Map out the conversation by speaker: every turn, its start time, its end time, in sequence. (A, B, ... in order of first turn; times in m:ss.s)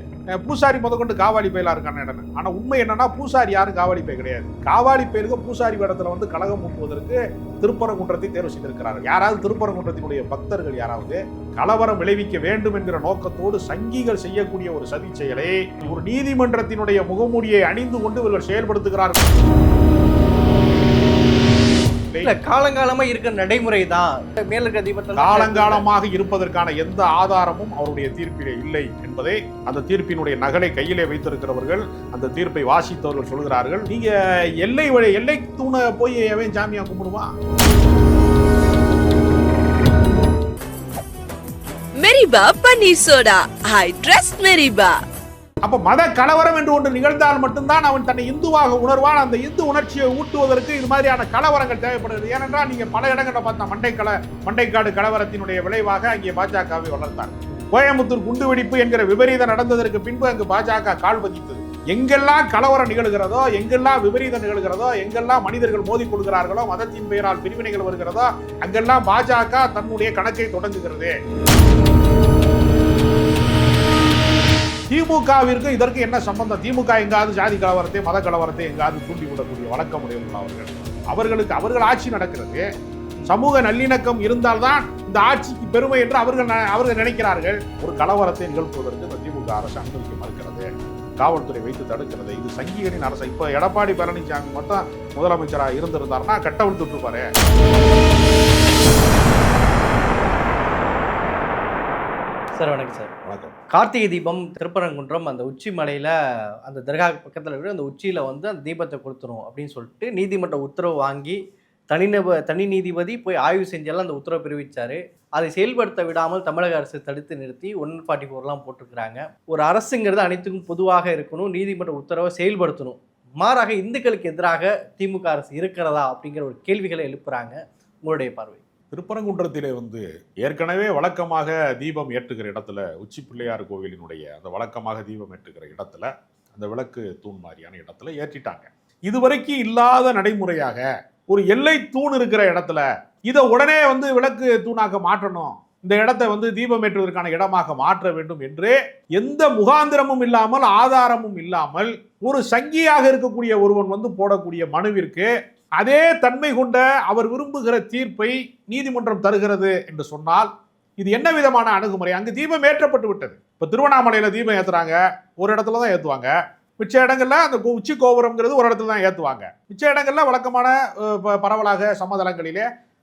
0:00.4-0:19.3 A
0:22.2-0:25.9 B
0:25.2-0:37.3 A
0:42.0-0:45.0 C
0:45.6-1:11.1 A
1:14.9-1:22.6 A
1:23.3-1:30.7 A
1:31.2-1:37.3 A
1:42.6-1:43.1 B
1:43.3-1:43.6 A
1:43.7-1:46.1 B
1:46.7-1:51.4 B
1:51.9-2:08.6 B
2:08.9-2:40.5 A
2:41.0-2:52.6 A